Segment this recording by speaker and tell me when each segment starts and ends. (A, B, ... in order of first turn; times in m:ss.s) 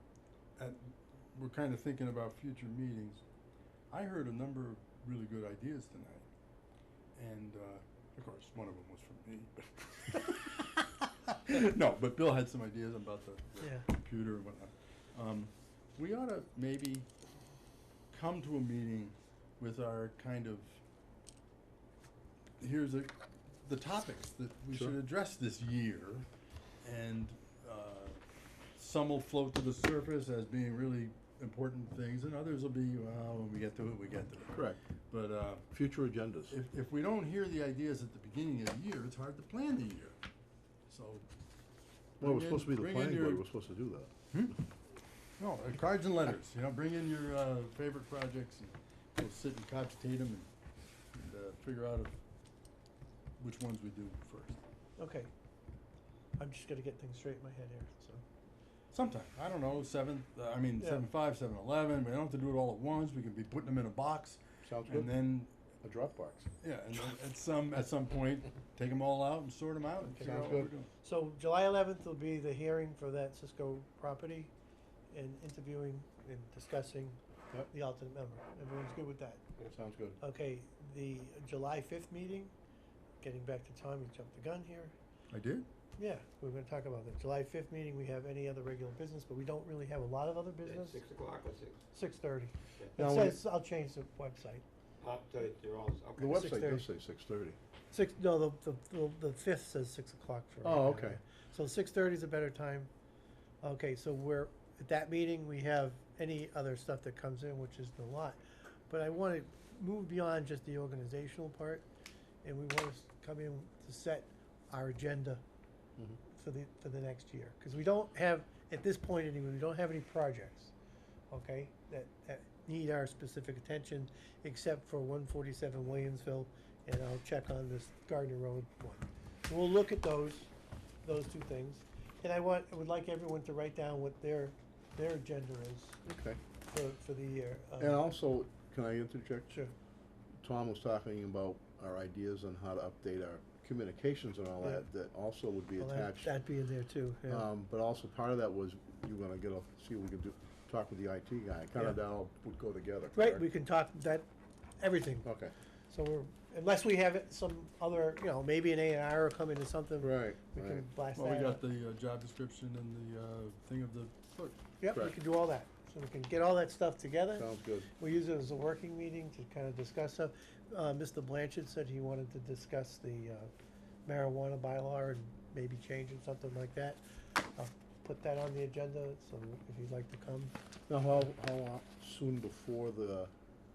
0:00.6-0:03.2 A
0:03.9-0:06.2 A
0:07.1-0:17.1 A
0:13.6-0:13.9 B
0:18.1-0:20.8 A
0:22.6-0:23.1 A
0:23.6-0:26.3 A
0:26.8-0:28.2 A
0:28.8-0:35.7 A
0:34.5-0:34.8 C
0:35.7-0:36.5 C
0:36.5-0:40.2 A
0:40.9-0:41.2 A
0:42.2-0:43.4 A
0:42.2-0:44.1 C
0:44.3-0:44.6 A
0:45.4-0:50.5 A
0:51.1-0:52.1 A
0:53.4-0:54.6 A
0:55.0-0:55.3 B
0:56.4-0:58.2 B
0:58.9-1:05.5 A
1:04.6-1:05.1 C
1:05.8-1:06.5 C
1:06.6-1:10.9 A
1:10.1-1:14.5 B
1:10.2-1:10.7 C
1:15.1-1:17.2 B
1:17.7-1:19.4 B
1:19.7-1:20.2 C
1:20.2-1:22.5 B
1:23.2-1:24.9 B
1:25.3-1:25.7 A
1:26.0-1:31.0 B
1:30.6-1:31.8 D
1:31.9-1:34.6 B
1:33.0-1:33.4 C
1:35.0-1:36.5 D
1:36.2-1:37.6 C
1:36.2-1:36.8 B
1:37.9-1:42.9 B
1:40.6-1:41.2 C
1:43.6-1:51.8 B
1:52.4-1:55.4 B
1:56.2-2:00.7 B
2:01.3-2:10.5 B
2:11.0-2:16.0 B
2:16.0-2:16.4 C
2:16.7-2:18.0 B
2:17.8-2:19.5 C
2:20.4-2:26.4 C
2:25.8-2:27.4 B
2:27.3-2:33.4 C
2:33.1-2:34.2 B
2:34.8-2:35.3 B
2:35.2-2:35.5 C
2:35.9-2:41.6 B
2:40.0-2:40.8 C
2:41.1-2:44.6 A
2:44.8-2:53.5 B
2:47.3-2:47.9 C
2:54.0-3:00.5 B
3:00.9-3:03.3 C